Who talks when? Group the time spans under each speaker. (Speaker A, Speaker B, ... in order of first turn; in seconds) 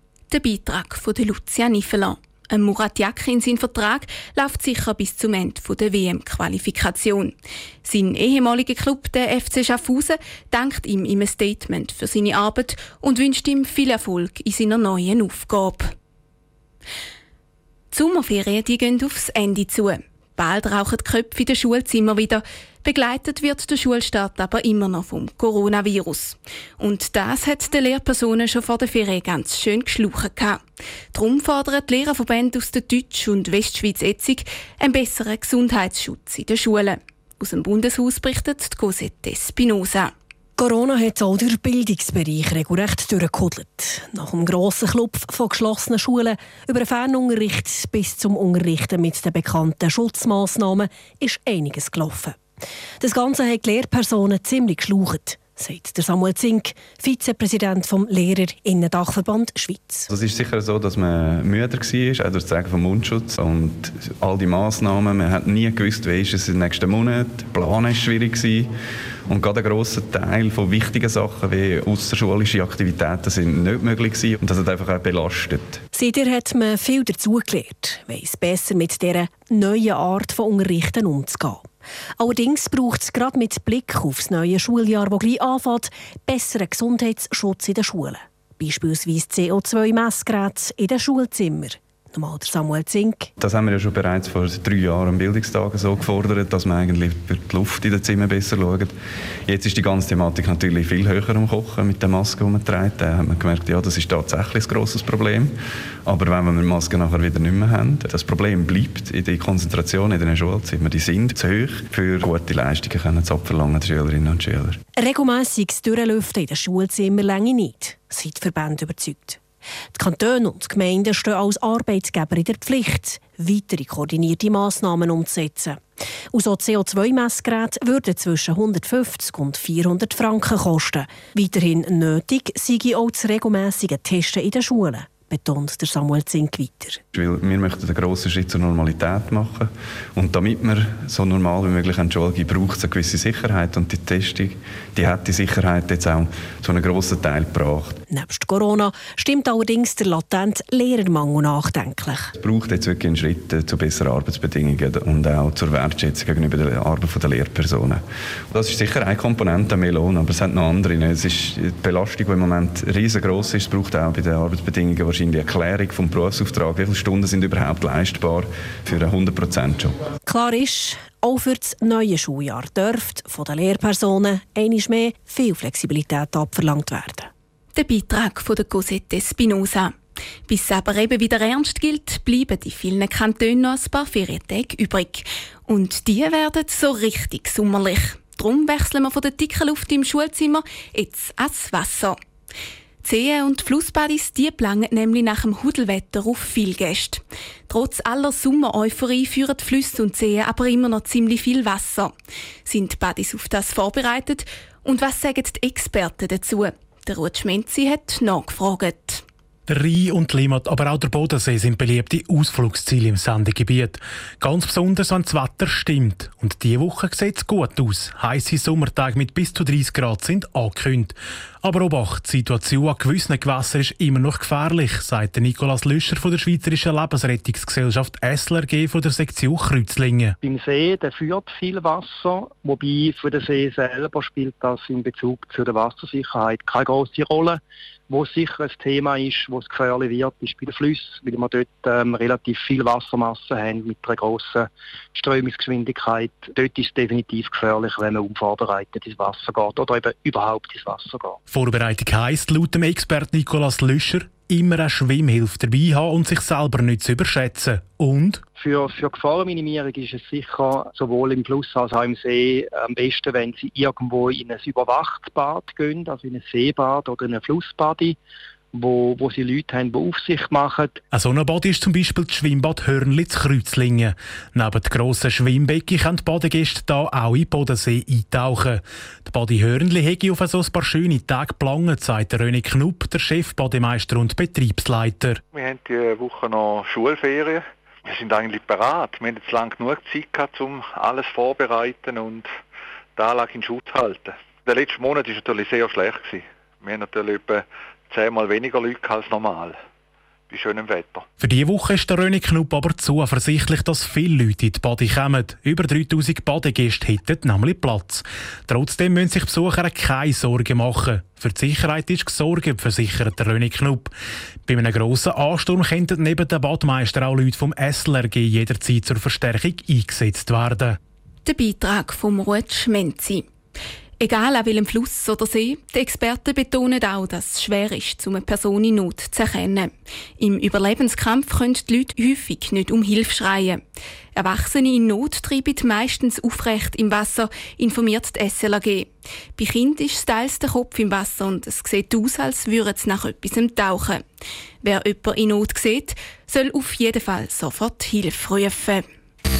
Speaker A: 0.3-15.9, 17.9-30.6, 31.1-40.1, 177.7-179.9, 180.5-192.2, 193.0-202.1, 202.7-209.2, 321.4-323.4, 324.2-333.8, 334.4-344.2, 344.8-349.0
Speaker B: 40.6-52.4, 53.0-60.1, 75.9-81.6, 82.2-93.3, 115.0-119.4, 119.9-125.8, 126.3-137.0, 148.1-152.3, 170.3-177.3
Speaker C: 60.1-68.7, 69.3-75.8, 93.4-98.9, 99.5-105.5, 106.0-114.8, 137.1-148.0, 152.4-158.0, 158.5-169.9
Speaker D: 209.7-230.3, 251.5-258.4, 271.1-285.4, 301.4-314.1, 314.6-321.0
Speaker E: 230.4-251.4, 258.6-268.2, 268.7-271.0
Speaker F: 285.5-292.5, 293.1-299.8, 300.5-301.2